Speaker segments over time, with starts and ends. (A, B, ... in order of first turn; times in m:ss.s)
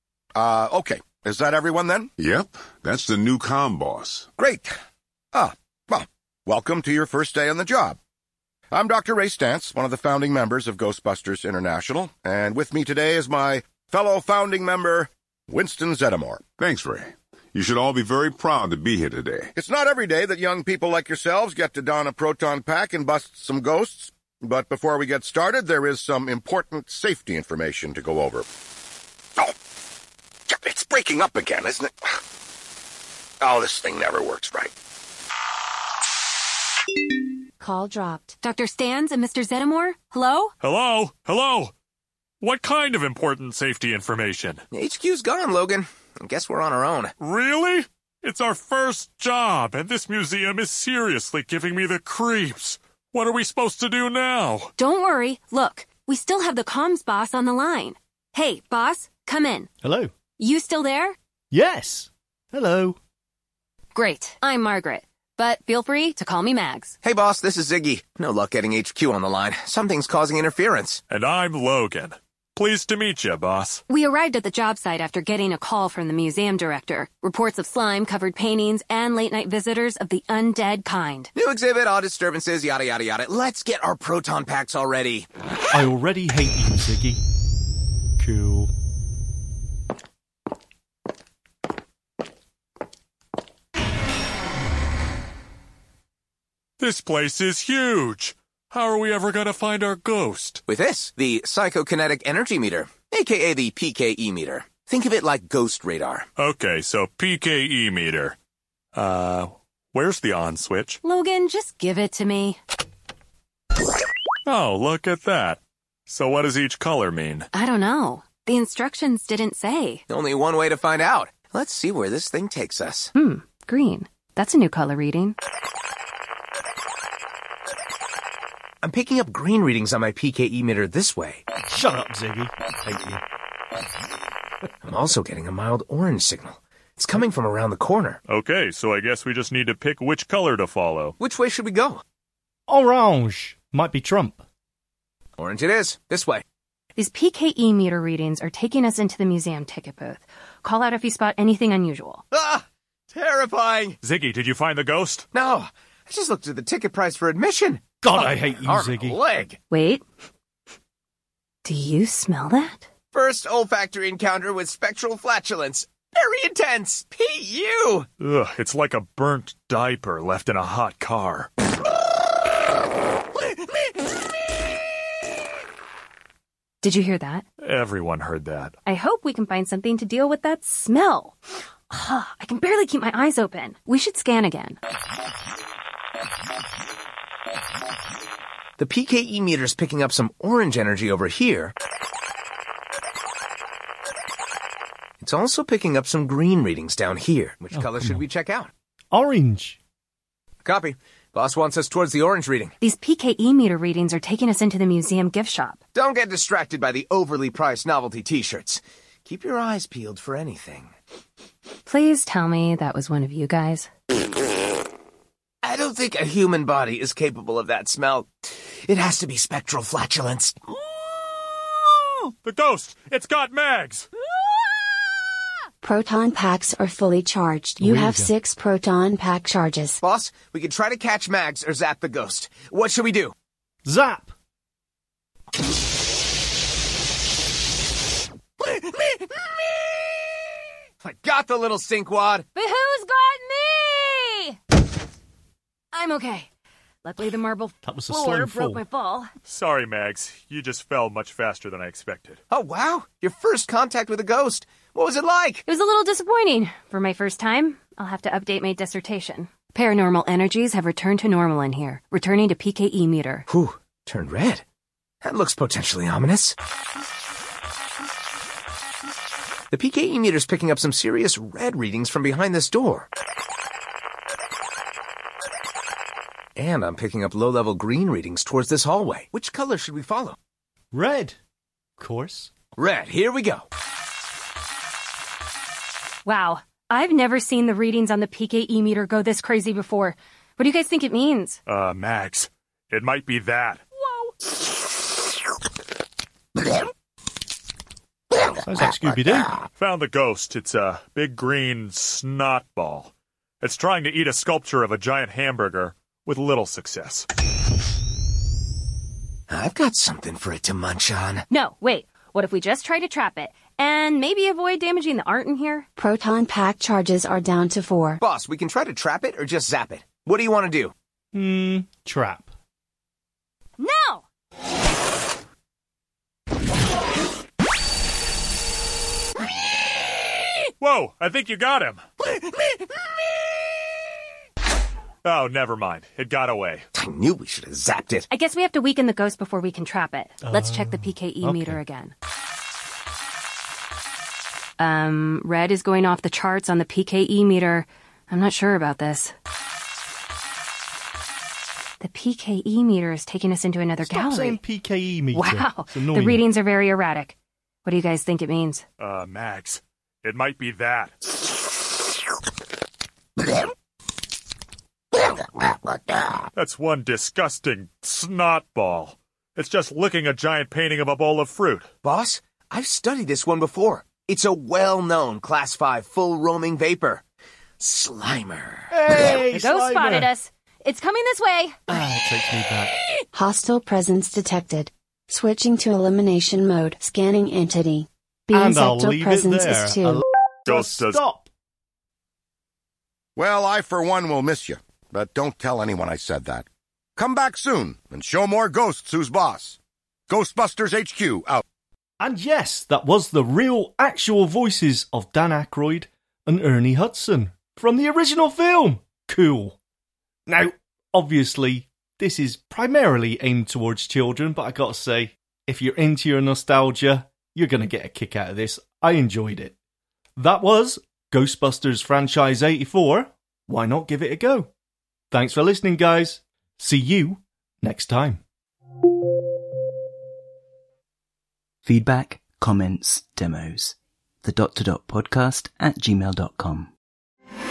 0:00.4-0:02.1 A
0:02.2-0:04.3 B
0:04.4-0:04.7 A
0:05.3-0:08.0 A
0:08.7-0:16.4 A
0:16.6-0:19.5 B
0:19.6-0:28.4 A
0:30.5-0:31.9 A
0:33.4-0:34.7 A
0:37.6-0:38.4 C
0:38.4-0:40.5 D
0:40.6-0:41.7 E
0:42.4-0:44.6 E
0:44.7-0:47.1 F
0:47.2-0:54.7 E
0:54.8-0:59.7 D
0:59.8-1:00.1 G
1:00.4-1:01.2 D
1:01.5-1:03.0 G
1:04.0-1:07.0 D
1:07.0-1:11.0 F
1:11.1-1:13.8 E
1:13.9-1:21.3 D
1:21.4-1:25.3 F
1:25.7-1:27.2 G
1:28.2-1:28.7 G
1:36.8-1:40.6 E
1:40.7-1:46.3 F
1:46.4-1:48.4 E
1:48.9-1:51.0 E
1:51.0-1:52.6 D
1:54.5-1:57.5 E
1:57.5-2:00.0 D
2:00.1-2:03.1 F
2:03.2-2:05.4 D
2:08.8-2:11.4 F
2:11.7-2:13.2 G
2:14.9-2:18.2 F
2:18.3-2:21.2 E
2:21.2-2:22.0 F
2:22.7-2:24.4 G
2:25.4-2:26.4 F
2:27.0-2:32.2 D
2:32.3-2:34.0 F
2:34.0-2:35.2 E
2:35.3-2:39.6 F
2:38.0-2:39.2 G
2:39.7-2:40.0 D
2:41.6-2:42.9 D
2:43.1-2:48.1 F
2:48.2-2:51.5 E
2:56.8-2:57.4 D
2:57.6-2:58.8 E
2:58.8-3:04.8 D
3:08.8-3:11.7 F
3:15.2-3:18.7 F
3:17.7-3:18.2 G
3:19.1-3:19.8 G
3:20.6-3:22.7 F
3:22.8-3:25.8 D
3:26.0-3:30.9 F
3:31.9-3:33.9 D
3:35.6-3:40.6 F
3:42.4-3:44.1 E
3:45.8-3:50.0 C
3:47.8-3:48.3 G
3:50.0-3:53.3 F
3:53.8-3:54.3 G
4:01.0-4:02.5 F
4:02.5-4:04.6 D
4:05.9-4:06.5 D
4:07.0-4:09.3 D
4:07.8-4:08.8 G
4:09.5-4:12.4 E
4:12.5-4:15.6 F
4:15.7-4:23.5 D
4:23.5-4:24.6 F
4:25.2-4:26.6 F
4:29.7-4:33.1 F
4:36.6-4:40.4 F
4:40.9-4:41.4 G
4:42.0-4:42.5 G
4:42.8-4:43.7 F
4:46.2-4:51.6 D
4:51.7-4:53.8 E
4:58.6-4:59.6 G
4:59.8-5:07.3 E
5:09.5-5:11.4 F
5:11.5-5:15.9 D
5:16.0-5:18.2 C
5:18.2-5:20.9 F
5:21.3-5:22.5 G
5:23.8-5:24.2 D
5:30.8-5:32.0 E
5:35.2-5:36.8 E
5:37.0-5:38.3 F
5:38.3-5:42.1 D
5:40.4-5:41.8 G
5:44.8-5:49.3 D
5:52.0-5:54.6 D
5:54.0-5:56.4 G
5:55.3-5:58.8 D
5:59.0-6:01.1 E
6:06.6-6:11.9 E
6:12.0-6:17.2 F
6:17.8-6:19.0 F
6:18.9-6:20.3 G
6:19.2-6:21.8 D
6:21.9-6:23.0 G
6:23.3-6:30.2 C
6:28.5-6:31.5 G
6:30.7-6:31.2 E
6:33.4-6:39.8 A
6:40.3-6:41.6 A
6:42.2-6:49.8 G
6:50.5-6:59.8 G
7:00.4-7:04.7 G
7:05.3-7:08.4 G
7:11.8-7:16.9 H